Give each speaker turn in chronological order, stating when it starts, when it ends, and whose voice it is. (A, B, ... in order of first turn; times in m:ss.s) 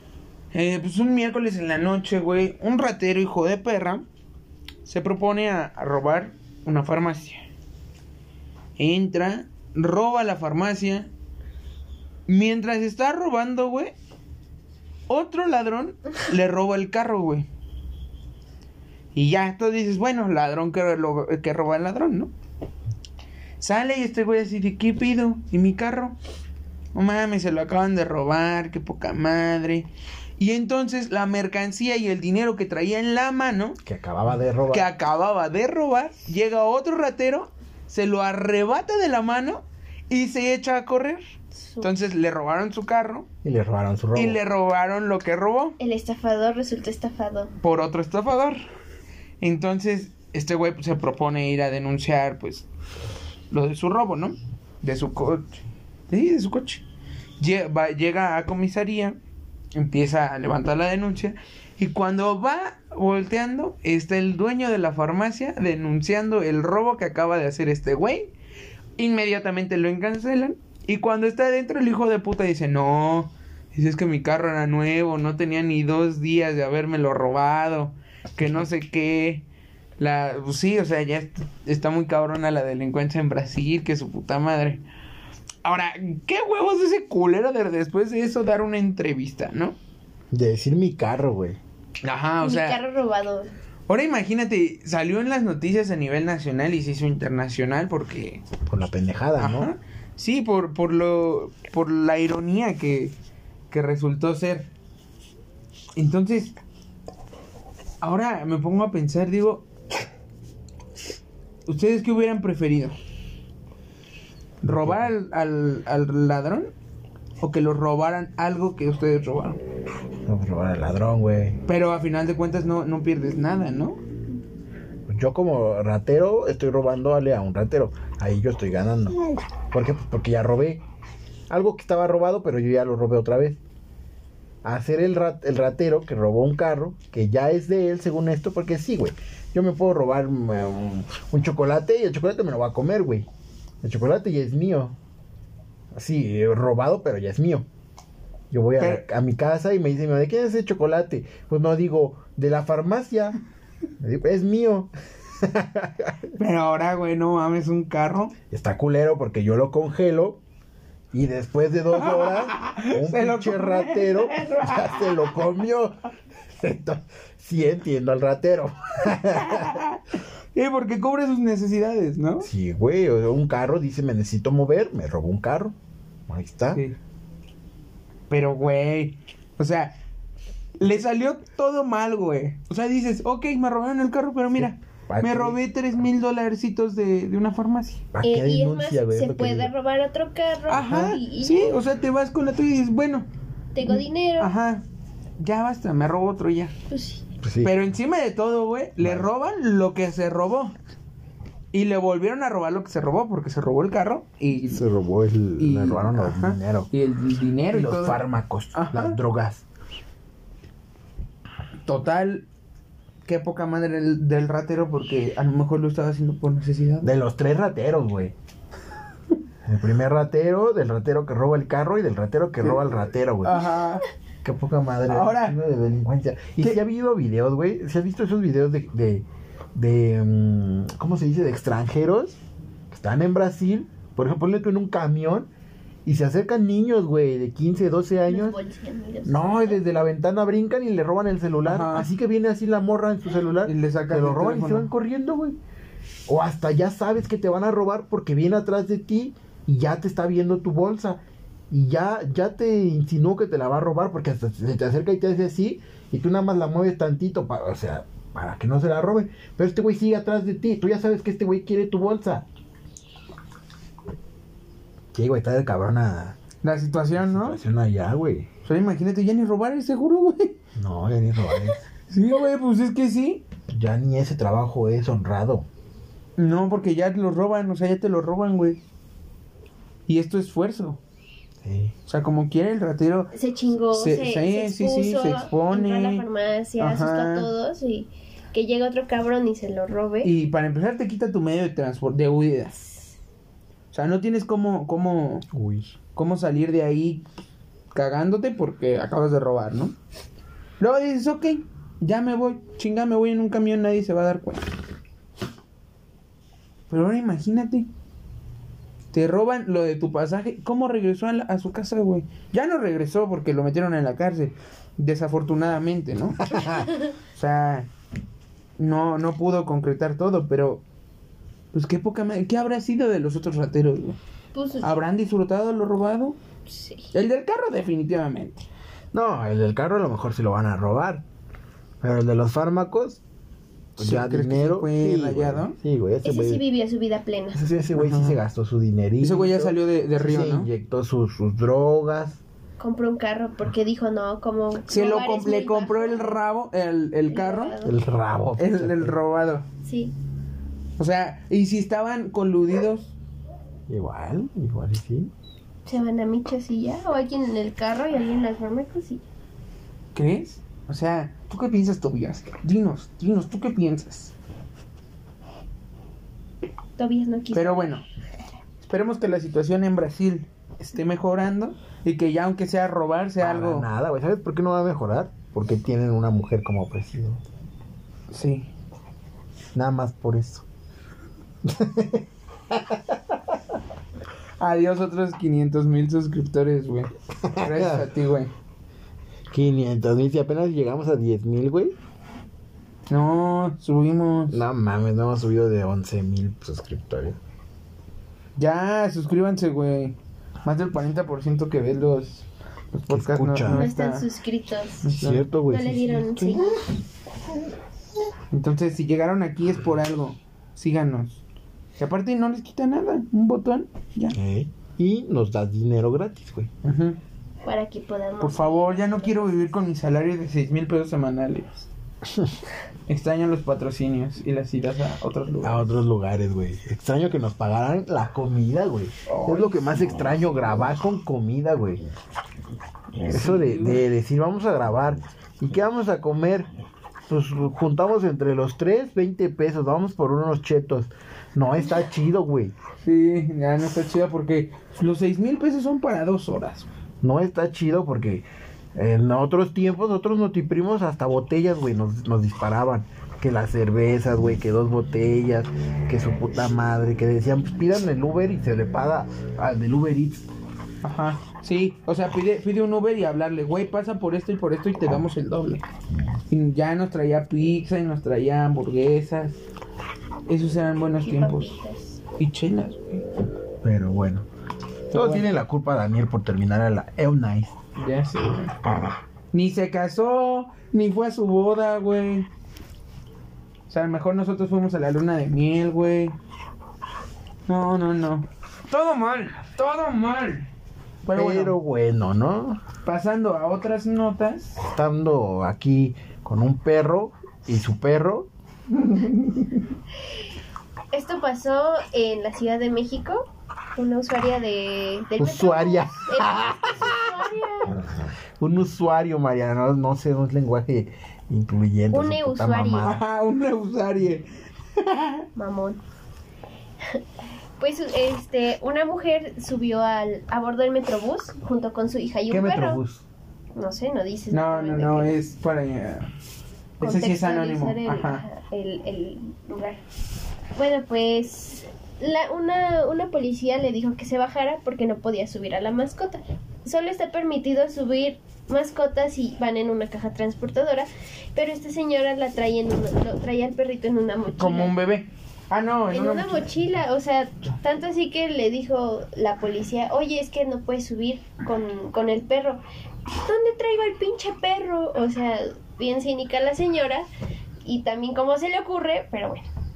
0:00.5-0:04.1 A
0:04.9-0:07.4 A
0:08.8-0:11.1 A
0:12.3-0:13.9 A
0:15.1-0:17.5 A
0:19.1-0:22.3 A
0:23.6-0:26.2 A
0:26.9-0:33.8 A
0:33.8-0:34.9 B
0:34.7-0:41.2 A
0:41.5-0:41.9 C
0:41.8-0:43.3 A
0:43.4-0:44.4 B
0:44.2-0:45.8 A
0:45.8-0:47.5 C
0:47.6-0:48.6 A
0:49.4-0:52.7 A
0:53.5-0:56.8 A
0:57.4-0:59.2 A
0:59.7-1:08.3 A
1:09.0-1:19.4 A
1:20.0-1:24.8 A
1:25.6-1:29.8 A
1:30.3-1:31.6 B
1:32.0-1:32.8 A
1:32.4-1:33.5 C
1:33.9-1:38.4 A
1:38.7-1:39.7 B
1:39.4-1:43.2 A
1:43.7-1:44.7 A
1:46.0-1:46.6 A
1:48.0-1:49.6 A
1:51.7-1:53.0 A
1:54.6-1:56.7 A
1:54.6-1:55.1 B
1:57.4-1:59.6 A
2:00.3-2:01.6 B
2:01.7-2:04.0 A
2:05.1-2:09.2 B
2:09.7-2:10.8 B
2:11.5-2:13.6 B
2:14.6-2:23.3 B
2:23.8-2:25.0 B
2:25.9-2:27.7 B
2:28.5-2:33.4 B
2:28.8-2:29.0 A
2:34.0-2:36.3 B
2:36.4-2:38.4 A
2:38.5-2:40.4 B
2:41.1-2:46.0 B
2:41.9-2:45.4 A
2:46.6-2:49.8 B
2:49.4-2:50.0 A
2:50.6-2:52.5 A
2:52.4-2:55.8 B
2:56.3-2:56.8 B
2:56.7-2:57.0 A
2:58.3-3:00.0 A
3:00.8-3:08.0 A
3:04.6-3:05.6 B
3:08.1-3:09.7 B
3:08.2-3:11.8 C
3:10.7-3:13.3 A
3:13.8-3:14.5 C
3:13.9-3:14.8 A
3:15.4-3:16.7 A
3:16.9-3:17.2 C
3:17.4-3:17.8 B
3:17.6-3:20.8 A
3:19.0-3:19.3 B
3:21.7-3:24.8 A
3:24.7-3:26.9 B
3:25.6-3:29.2 A
3:27.7-3:29.6 B
3:31.9-3:32.5 A
3:33.3-3:37.1 A
3:37.0-3:38.3 B
3:39.6-3:43.6 B
3:43.4-3:44.0 A
3:44.4-3:52.4 B
3:45.1-3:45.6 A
3:52.9-3:55.5 B
3:56.0-3:58.6 B
3:58.3-3:59.8 C
3:59.2-4:05.6 B
4:01.7-4:02.1 A
4:03.6-4:04.9 A
4:06.3-4:22.5 B
4:25.1-4:26.4 B
4:26.6-4:27.6 A
4:27.2-4:28.5 B
4:28.6-4:30.6 A
4:30.8-4:31.8 B
4:32.1-4:33.4 A
4:33.7-4:35.7 B
4:36.4-4:38.8 A
4:40.1-4:41.0 A
4:41.6-4:42.0 B
4:42.1-4:43.3 A
4:43.3-4:50.3 C
4:43.9-4:46.2 A
4:46.8-4:47.5 A
4:50.2-4:52.8 A
4:53.9-4:55.5 A
4:55.5-4:56.0 B
4:56.2-4:57.2 A
4:57.9-5:00.0 A
5:00.8-5:04.7 A
5:06.9-5:07.9 A
5:09.1-5:16.8 A
5:16.5-5:16.9 B
5:16.7-5:17.1 C
5:17.4-5:17.9 A
5:18.8-5:20.8 A
5:21.7-5:24.2 A
5:24.5-5:25.0 C
5:24.8-5:26.4 A
5:26.7-5:27.1 C
5:27.1-5:28.6 A
5:29.1-5:31.2 B
5:32.0-5:33.2 B
5:34.0-5:36.6 B
5:34.0-5:35.8 A
5:36.2-5:37.6 C
5:37.5-5:42.4 B
5:38.0-5:38.4 A
5:39.2-5:40.7 A
5:42.8-5:46.4 C
5:44.9-5:47.8 A
5:47.3-5:48.0 C
5:47.8-5:49.2 B
5:48.6-5:49.7 A
5:49.8-5:50.1 C
5:51.0-5:53.1 A
5:53.9-5:55.3 B
5:55.9-5:59.2 C
6:00.1-6:04.3 A
6:07.0-6:07.8 C
6:07.5-6:08.0 A
6:08.8-6:13.9 A
6:13.4-6:17.4 B
6:18.3-6:18.7 A
6:19.8-6:20.6 B
6:21.6-6:23.4 B
6:24.6-6:28.5 A
6:27.4-6:28.1 B
6:29.5-6:32.0 B
6:33.1-6:34.6 A
6:34.5-6:37.4 B
6:38.6-6:44.3 A
6:43.1-6:43.9 B
6:43.7-6:45.1 C
6:45.0-6:45.5 A
6:45.1-6:46.7 B
6:45.7-6:46.7 C
6:48.5-6:51.4 A
6:52.0-6:54.4 A
6:54.3-6:56.7 B
6:56.8-6:57.2 A
6:57.6-6:59.4 C
6:58.4-7:01.9 A
7:03.1-7:05.9 A
7:05.6-7:12.0 B
7:09.3-7:10.4 A
7:13.2-7:16.7 B
7:13.2-7:14.0 A
7:17.3-7:22.7 B
7:23.0-7:26.9 A
7:27.2-7:40.5 B
7:41.0-7:45.8 A
7:46.5-7:49.6 A
7:50.5-7:51.8 A
7:51.2-7:52.2 C
7:52.4-7:53.2 A
7:53.8-7:54.5 B
7:55.1-7:55.5 A
7:55.1-7:57.8 B
7:58.0-7:58.8 A
7:59.5-8:02.5 A
8:03.9-8:06.4 A
8:07.7-8:10.7 A
8:11.2-8:11.8 A
8:11.3-8:12.8 B
8:13.0-8:14.8 A
8:14.8-8:18.5 B
8:19.2-8:19.5 A
8:21.1-8:23.4 C
8:24.0-8:28.0 C
8:25.4-8:33.2 B
8:32.1-8:33.1 C
8:33.0-8:35.5 A
8:35.6-8:36.0 C
8:37.8-8:43.0 C
8:42.5-8:43.2 B
8:43.8-8:45.4 C
8:44.5-8:46.3 A
8:47.0-8:48.4 A
8:47.0-8:50.0 C
8:50.8-9:04.9 C
9:04.6-9:06.7 A
9:06.1-9:12.8 C
9:13.4-9:17.3 C
9:17.8-9:19.6 C